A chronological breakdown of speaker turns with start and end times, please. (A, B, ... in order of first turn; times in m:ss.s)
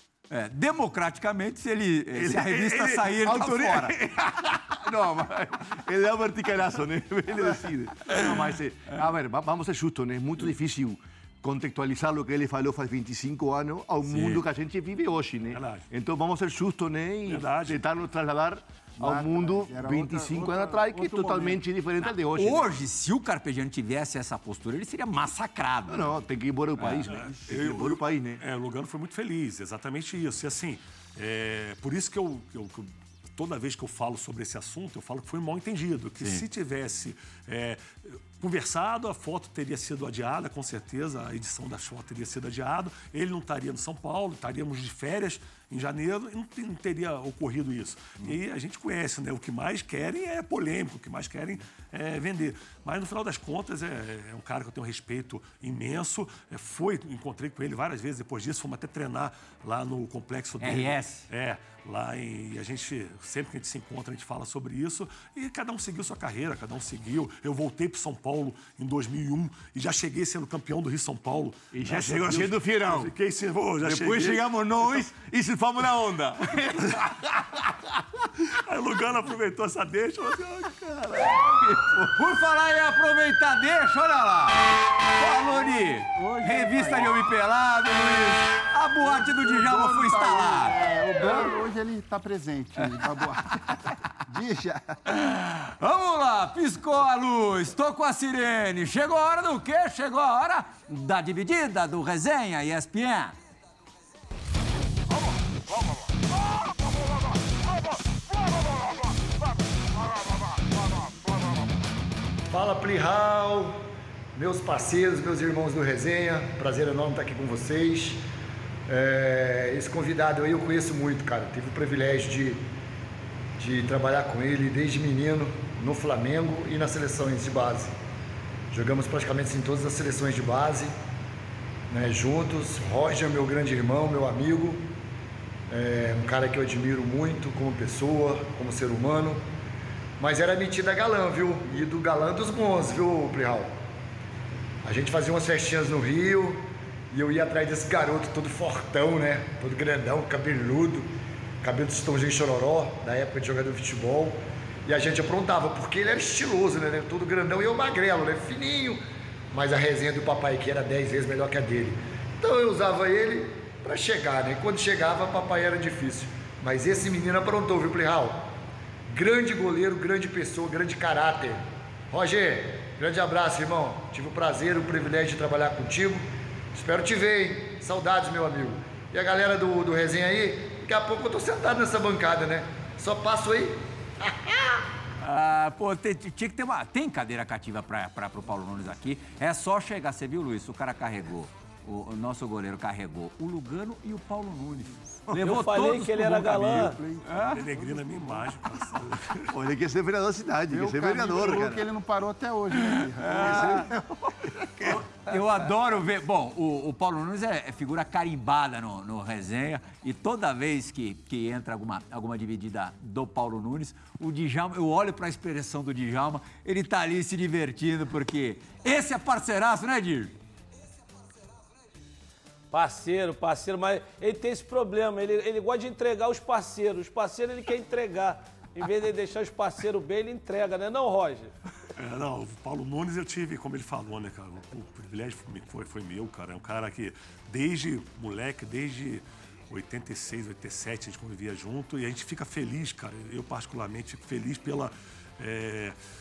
0:00.3-0:03.9 A
0:02.1-0:22.7 B
0:14.1-0:14.4 A
0:15.5-0:15.9 C
0:17.3-0:17.8 C
0:19.0-0:21.6 D
0:22.3-0:26.2 A
0:25.9-0:28.4 B
0:27.0-1:15.0 C
1:00.6-1:01.2 A
1:11.7-1:13.1 B
1:13.8-1:17.3 B
1:16.8-1:17.2 C
1:18.4-1:21.6 C
1:21.3-1:22.1 B
1:22.1-1:30.8 A
1:25.5-1:27.1 D
1:29.0-1:35.0 D
1:35.1-1:43.3 A
1:52.5-1:53.8 E
1:54.3-1:58.2 E
1:58.9-2:02.6 E
2:03.6-2:07.9 E
2:08.7-2:10.9 E
2:11.9-2:14.8 E
2:15.7-2:19.4 E
2:20.2-2:23.7 E
2:24.8-2:31.1 E
2:31.6-2:48.4 E
2:49.1-3:04.8 E
3:05.2-3:17.6 A
3:15.3-3:17.0 F
3:16.5-3:18.5 D
3:17.5-3:19.5 C
3:19.5-3:21.9 B
3:20.7-3:25.0 D
3:23.2-3:23.9 A
3:25.2-3:40.4 A
3:42.7-3:51.5 F
3:52.0-4:06.0 C